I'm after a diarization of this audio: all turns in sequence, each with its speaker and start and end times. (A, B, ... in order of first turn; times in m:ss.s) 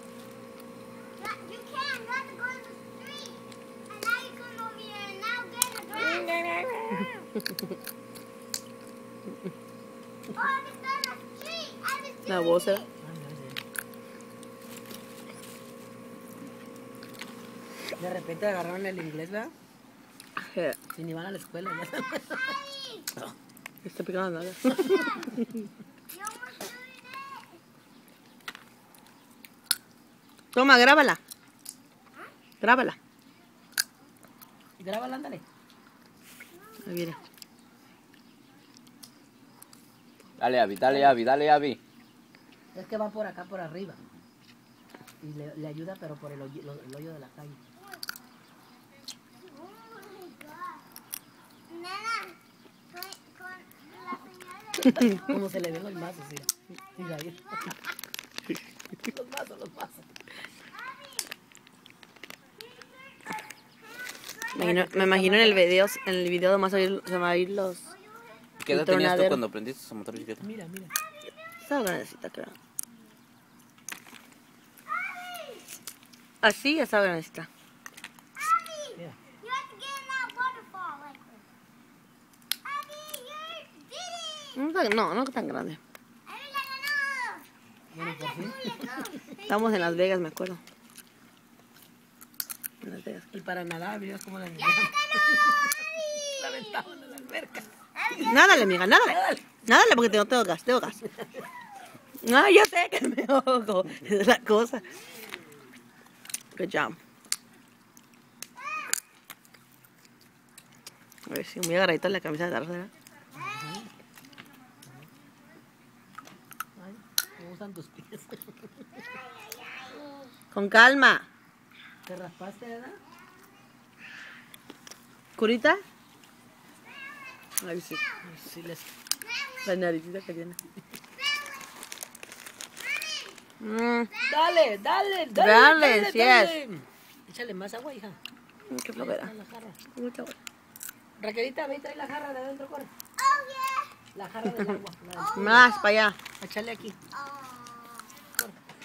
0:01.2-0:06.3 A
0:06.0-0:07.2 B
0:10.4-0:12.9 A
0:12.3-0:12.9 B
0:13.0-0:13.6 C
0:18.0-0:19.5 C
0:20.4-0:20.8 B
0:20.9-0:22.6 C
0:22.6-0:23.1 A
0:23.8-0:25.4 B
0:26.1-0:27.5 A
0:30.5-0:31.2 B
0:32.6-0:33.0 B
0:34.8-0:35.4 C
0:36.8-0:37.2 B
0:40.4-0:41.8 D
0:42.7-0:44.0 C
0:45.2-0:47.6 C
0:49.5-0:50.8 A
0:51.7-0:52.4 A
0:52.9-0:55.1 A
0:54.9-0:57.8 C
0:58.9-1:00.0 C
1:00.8-1:01.2 A
1:04.6-1:07.9 B
1:04.6-1:05.6 C
1:08.0-1:08.4 A
1:08.6-1:10.4 D
1:08.7-1:09.4 B
1:10.4-1:10.9 C
1:11.6-1:12.6 B
1:16.4-1:17.5 B
1:18.4-1:21.4 A
1:22.7-1:24.5 A
1:24.6-1:25.8 B
1:26.3-1:27.5 A
1:27.9-1:29.2 C
1:28.8-1:29.6 A
1:29.4-1:30.6 B
1:32.8-1:33.3 B
1:33.3-1:37.7 C
1:38.2-1:41.0 B
1:39.1-1:39.5 C
1:41.2-1:41.4 C
1:42.2-1:44.8 B
1:46.5-1:47.0 B
1:51.3-1:52.9 B
1:53.3-1:53.9 C
1:56.8-1:59.0 C
1:59.4-2:00.1 A
2:00.5-2:01.3 B
2:02.1-2:03.0 C
2:05.4-2:05.8 B
2:07.6-2:08.0 B
2:08.2-2:08.9 C
2:09.6-2:10.6 B
2:13.6-2:14.1 B
2:14.2-2:18.2 C
2:15.3-2:16.6 B
2:18.7-2:19.3 B
2:18.9-2:19.8 C
2:19.9-2:20.4 B
2:21.2-2:22.9 C
2:23.2-2:23.9 A
2:24.1-2:25.7 C
2:25.2-2:25.8 A
2:25.3-2:26.2 B
2:26.4-2:27.0 C
2:27.1-2:28.1 A